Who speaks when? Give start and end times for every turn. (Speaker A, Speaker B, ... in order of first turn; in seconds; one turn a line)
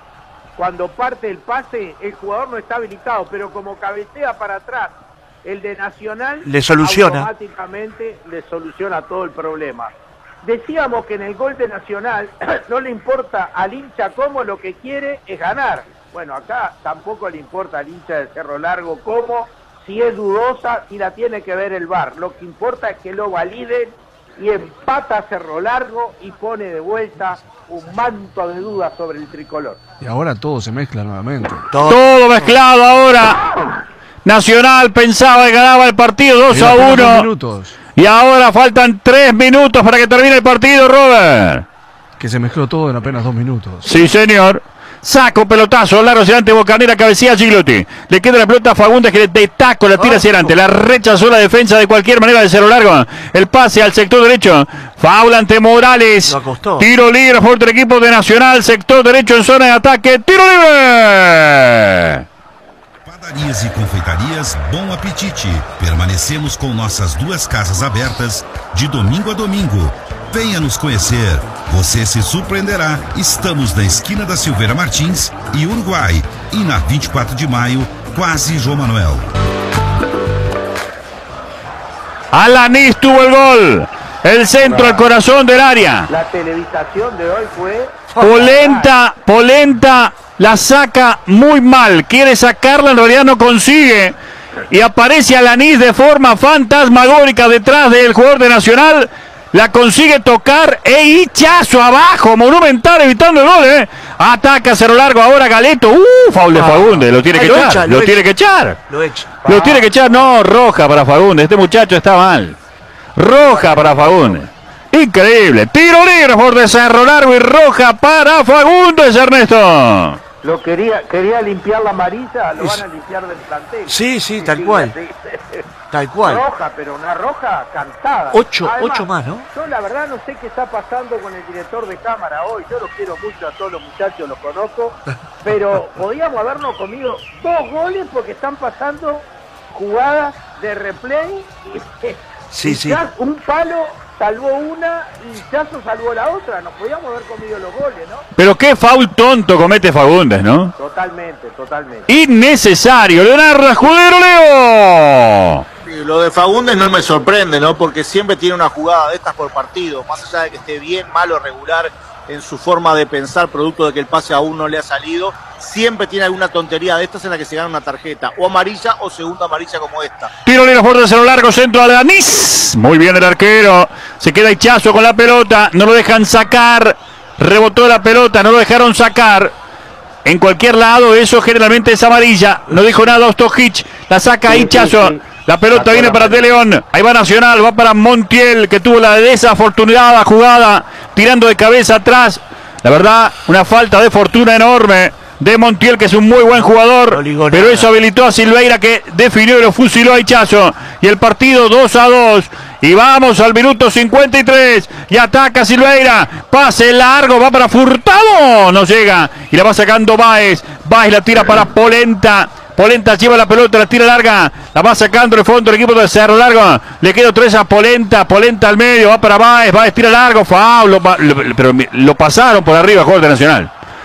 Speaker A: 0.6-29.8
Speaker B: 6.4-7.3
Speaker C: 30.0-31.7
Speaker B: 31.7-32.5
Speaker D: 31.9-33.5
Speaker D: 34.2-37.3
Speaker C: 36.5-37.7
Speaker D: 37.9-41.6
Speaker C: 42.2-44.0
Speaker D: 43.8-62.2
Speaker B: 50.0-50.5
Speaker B: 56.2-56.9
Speaker E: 63.0-79.3
Speaker D: 82.3-86.1
Speaker A: 84.6-85.1
Speaker A: 86.1-88.9
Speaker D: 88.2-94.1
Speaker D: 94.7-108.8
Speaker B: 106.5-108.2
Speaker B: 108.9-109.3
Speaker A: 109.4-109.9
Speaker D: 109.5-112.5
Speaker D: 113.1-120.2
Speaker A: 113.4-114.5
Speaker A: 120.4-125.6
Speaker B: 123.9-124.9
Speaker B: 125.9-126.4
Speaker A: 126.2-148.3
Speaker B: 128.3-129.5
Speaker B: 142.5-143.0
Speaker D: 148.3-150.7
Speaker A: 150.8-152.1
Speaker D: 152.1-155.6
Speaker F: 155.8-170.3
Speaker D: 170.4-179.5
Speaker D: 180.2-223.7
Speaker A: 184.5-186.5
Speaker B: 197.1-197.9